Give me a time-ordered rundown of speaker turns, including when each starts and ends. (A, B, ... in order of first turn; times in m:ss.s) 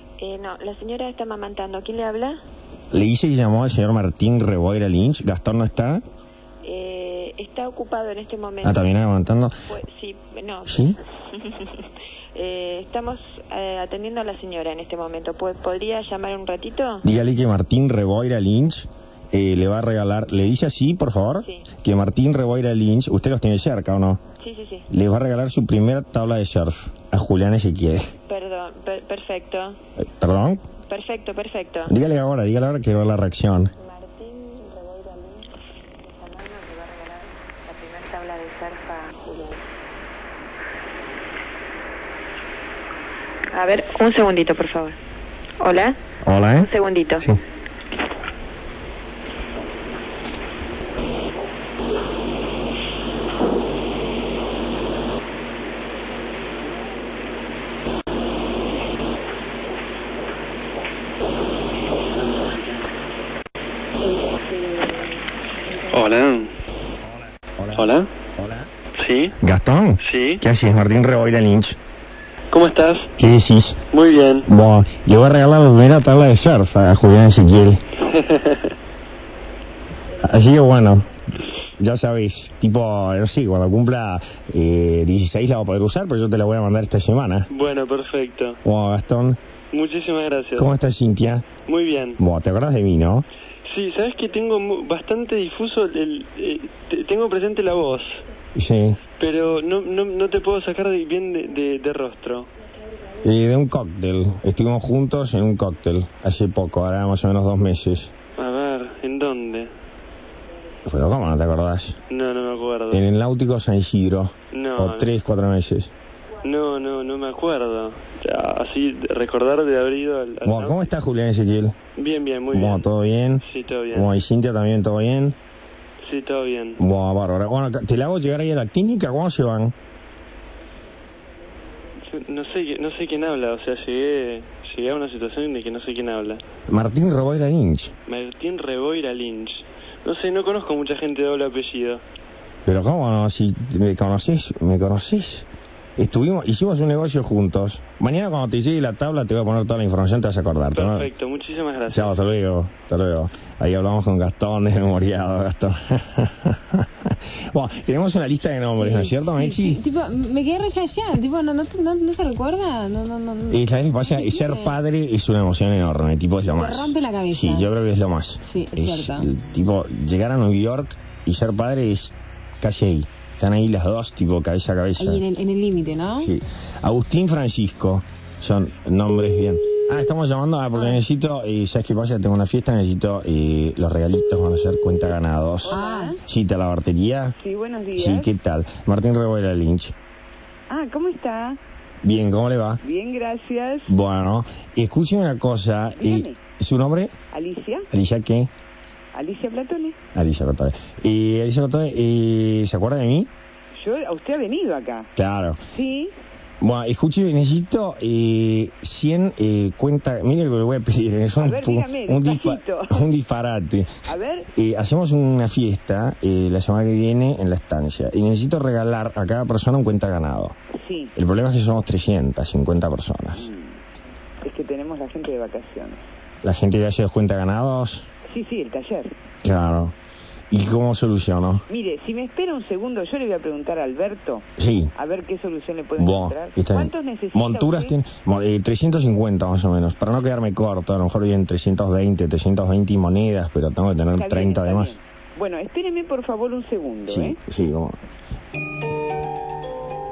0:00.2-0:02.4 A
0:02.9-0:06.0 B
0:06.6-0:08.9 A
0:08.6-0:09.5 B
0:09.7-0:17.0 A
0:10.6-0:11.0 B
0:17.0-0:24.2 B
0:24.4-0:24.9 A
0:24.9-0:28.1 B
0:28.3-0:29.8 A
0:30.0-0:30.6 B
0:30.9-0:31.9 A
0:31.9-0:33.7 B
0:33.8-0:35.5 A
0:36.0-0:39.6 A
0:43.5-0:45.0 A
0:45.6-0:46.0 A
0:46.2-0:46.7 B
0:46.5-0:47.3 A
1:05.9-1:06.5 C
1:07.6-1:08.7 B
1:07.7-1:08.1 C
1:09.0-1:09.3 C
1:09.4-1:11.8 B
1:10.0-1:10.4 C
1:12.5-1:13.1 C
1:13.2-1:13.8 B
1:13.9-1:14.4 C
1:14.4-1:17.8 B
1:18.1-1:18.7 C
1:20.2-1:21.0 B
1:21.8-1:27.5 B
1:27.5-1:28.6 C
1:28.6-1:29.4 B
1:29.7-1:30.7 C
1:30.6-1:31.4 B
1:31.6-1:32.2 C
1:32.2-1:33.2 B
1:33.7-1:38.2 C
1:38.5-1:39.0 B
1:39.2-1:42.5 C
1:43.2-1:48.1 B
1:48.4-1:49.7 C
1:50.8-1:52.0 B
1:52.1-1:53.0 C
1:52.9-1:55.9 B
1:54.5-1:55.1 C
1:56.4-2:00.9 C
2:00.4-2:01.8 B
2:02.0-2:02.9 C
2:02.5-2:05.4 B
2:03.4-2:04.1 C
2:06.0-2:06.8 C
2:06.8-2:09.7 B
2:12.1-2:16.4 C
2:16.7-2:17.9 B
2:18.1-2:22.0 C
2:22.6-2:31.1 B
2:30.7-2:32.1 C
2:31.9-2:39.8 B
2:38.8-2:44.7 D
2:43.5-2:55.2 B
2:46.6-2:47.7 D
2:48.4-2:49.3 D
2:55.0-2:56.3 D
2:56.2-3:07.4 B
3:05.6-3:06.1 E
3:05.7-3:06.2 D
3:07.4-3:08.3 E
3:07.9-3:09.9 B
3:10.7-3:11.6 E
3:12.0-3:12.8 B
3:12.8-3:13.9 E
3:13.9-3:17.2 B
3:15.9-3:16.4 E
3:17.3-3:17.9 E
3:17.9-3:18.5 B
3:19.1-3:20.0 E
3:20.1-3:23.3 B
3:23.8-3:25.1 E
3:25.2-3:25.6 B
3:25.7-3:26.1 E
3:26.6-3:34.0 B
3:31.4-3:33.0 E
3:34.0-3:34.5 E
3:34.5-3:40.6 B
3:40.7-3:41.1 E
3:41.1-3:43.5 B
3:43.4-3:43.7 E
3:44.4-3:46.0 E
3:46.4-3:48.0 B
3:48.3-3:49.1 E
3:49.4-3:49.9 B
3:50.5-3:51.6 B
3:51.7-3:58.0 E
3:54.6-3:54.9 B
3:56.0-4:04.9 B
4:04.1-4:07.4 E
4:07.1-4:08.0 B